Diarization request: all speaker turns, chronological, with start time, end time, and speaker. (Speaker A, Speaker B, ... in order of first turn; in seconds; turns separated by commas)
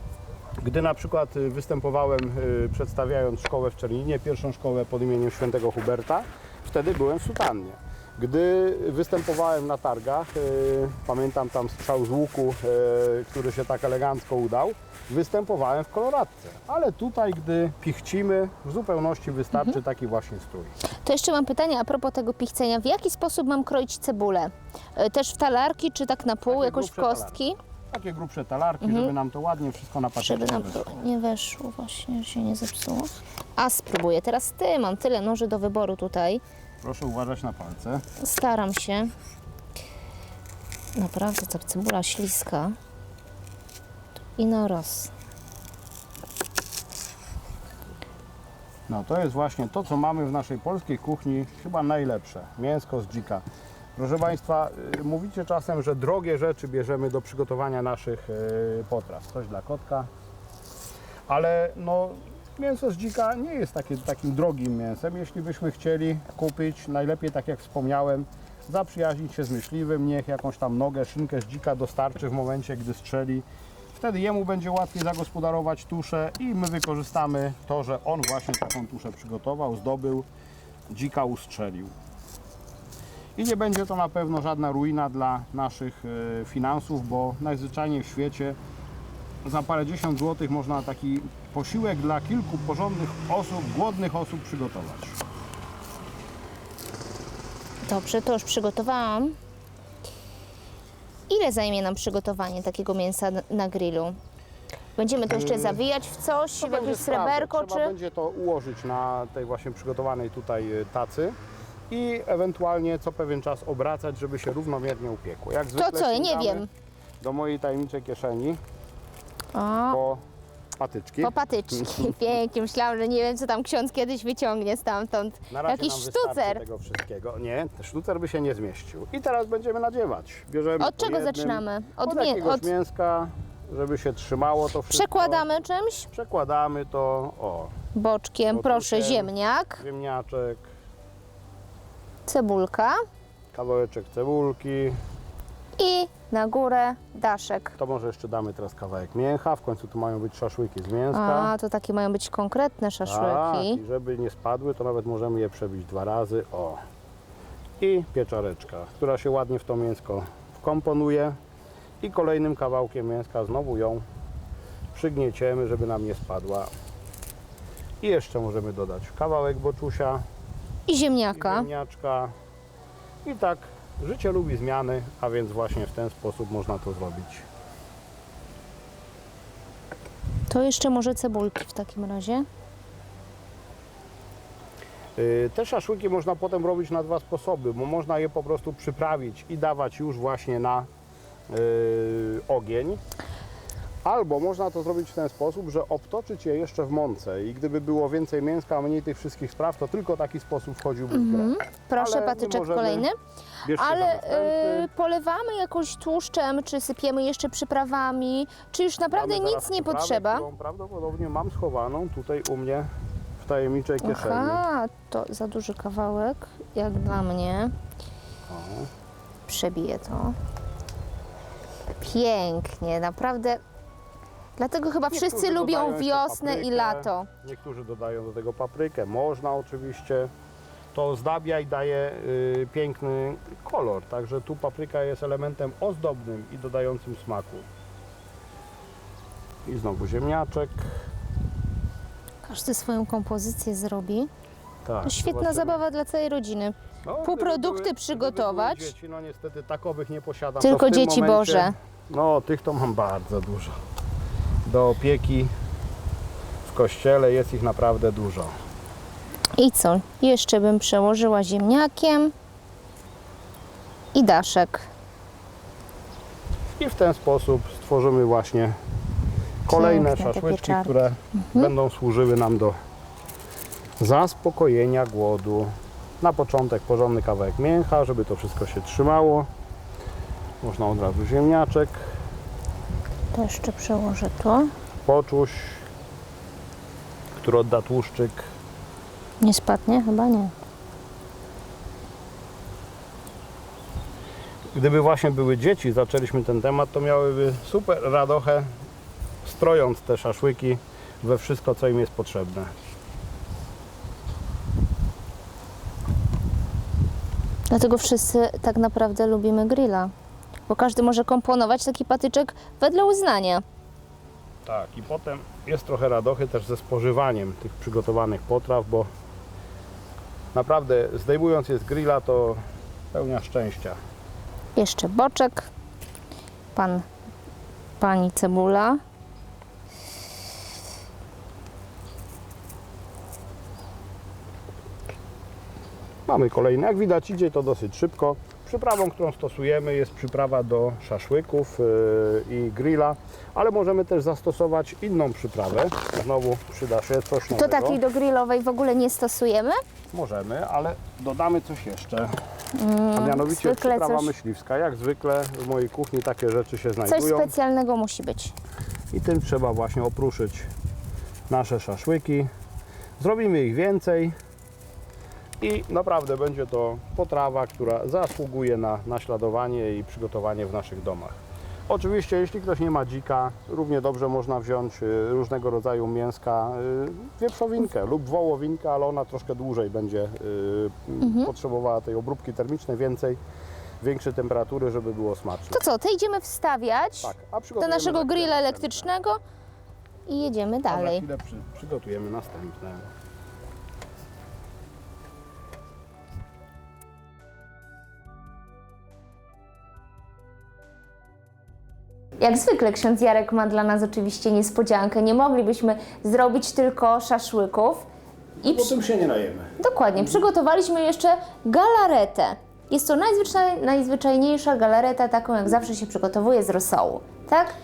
Speaker A: 0.6-20.7, Speaker B: 21.0-27.6, Speaker A: 26.5-27.4, Speaker A: 27.9-30.8, Speaker B: 28.8-29.1, Speaker B: 30.2-36.4, Speaker A: 36.8-38.0, Speaker B: 38.2-39.1, Speaker B: 41.0-42.7, Speaker B: 44.4-45.1, Speaker A: 48.9-53.4, Speaker A: 54.0-60.1, Speaker A: 61.3-80.3, Speaker A: 80.9-81.9, Speaker A: 83.3-88.6, Speaker A: 89.4-95.2, Speaker B: 97.8-99.3, Speaker B: 101.3-104.2, Speaker B: 105.0-107.9, Speaker A: 105.3-105.8, Speaker A: 106.6-111.3, Speaker A: 111.9-116.7, Speaker B: 115.7-116.7, Speaker A: 117.2-118.6, Speaker B: 119.5-120.0, Speaker A: 119.9-120.2, Speaker A: 120.8-122.2, Speaker B: 121.2-126.6, Speaker A: 125.5-135.5, Speaker B: 130.8-132.7, Speaker B: 134.9-136.1, Speaker A: 136.1-137.7, Speaker B: 137.9-139.8, Speaker A: 138.5-140.7, Speaker B: 142.2-143.0, Speaker A: 143.5-145.0, Speaker B: 145.8-147.7, Speaker A: 147.8-151.5, Speaker B: 151.1-153.8, Speaker A: 153.0-156.8, Speaker A: 157.8-161.3, Speaker A: 162.0-164.0, Speaker A: 164.9-166.7, Speaker A: 168.0-170.2, Speaker B: 170.9-171.7, Speaker A: 171.3-172.3, Speaker A: 173.2-177.4, Speaker B: 180.5-182.4, Speaker A: 185.2-190.9, Speaker A: 191.5-193.0, Speaker A: 194.0-203.1, Speaker B: 201.1-203.1, Speaker A: 203.6-204.9, Speaker B: 203.7-210.4, Speaker A: 209.1-214.6, Speaker B: 214.0-217.7, Speaker A: 218.5-218.9, Speaker B: 219.5-220.3, Speaker B: 222.0-223.6, Speaker B: 224.6-227.3, Speaker A: 225.1-230.3, Speaker A: 230.9-237.7, Speaker A: 239.6-240.9, Speaker B: 242.4-244.3, Speaker A: 244.8-245.8, Speaker B: 245.0-248.9, Speaker A: 247.0-253.8, Speaker B: 250.6-251.7, Speaker A: 254.6-255.5, Speaker A: 256.6-258.5, Speaker B: 259.6-262.3, Speaker B: 264.1-264.9, Speaker A: 266.8-268.8, Speaker A: 269.6-272.8, Speaker B: 269.7-271.7, Speaker A: 274.0-279.5, Speaker A: 280.6-282.0, Speaker B: 283.3-284.7, Speaker A: 285.0-285.8, Speaker A: 287.4-288.5, Speaker B: 289.4-290.5, Speaker A: 294.7-298.7, Speaker A: 299.4-302.7, Speaker B: 307.7-310.1, Speaker B: 310.7-313.6, Speaker A: 314.6-319.1, Speaker A: 320.5-322.6, Speaker A: 323.1-324.0, Speaker B: 324.8-325.7, Speaker B: 326.7-327.0, Speaker B: 328.0-329.0, Speaker A: 336.3-348.0, Speaker B: 347.5-349.8, Speaker A: 350.1-352.3, Speaker B: 352.8-354.3, Speaker A: 353.1-357.5, Speaker B: 357.1-358.5, Speaker A: 359.1-360.7, Speaker A: 361.5-362.5, Speaker A: 363.2-364.3, Speaker A: 365.6-383.4, Speaker B: 381.2-381.5, Speaker A: 384.0-385.8, Speaker B: 385.7-389.4, Speaker A: 387.2-389.1, Speaker B: 390.2-391.2, Speaker A: 390.9-393.1, Speaker B: 402.4-408.1, Speaker A: 408.6-410.4, Speaker B: 408.6-408.9, Speaker B: 409.8-417.7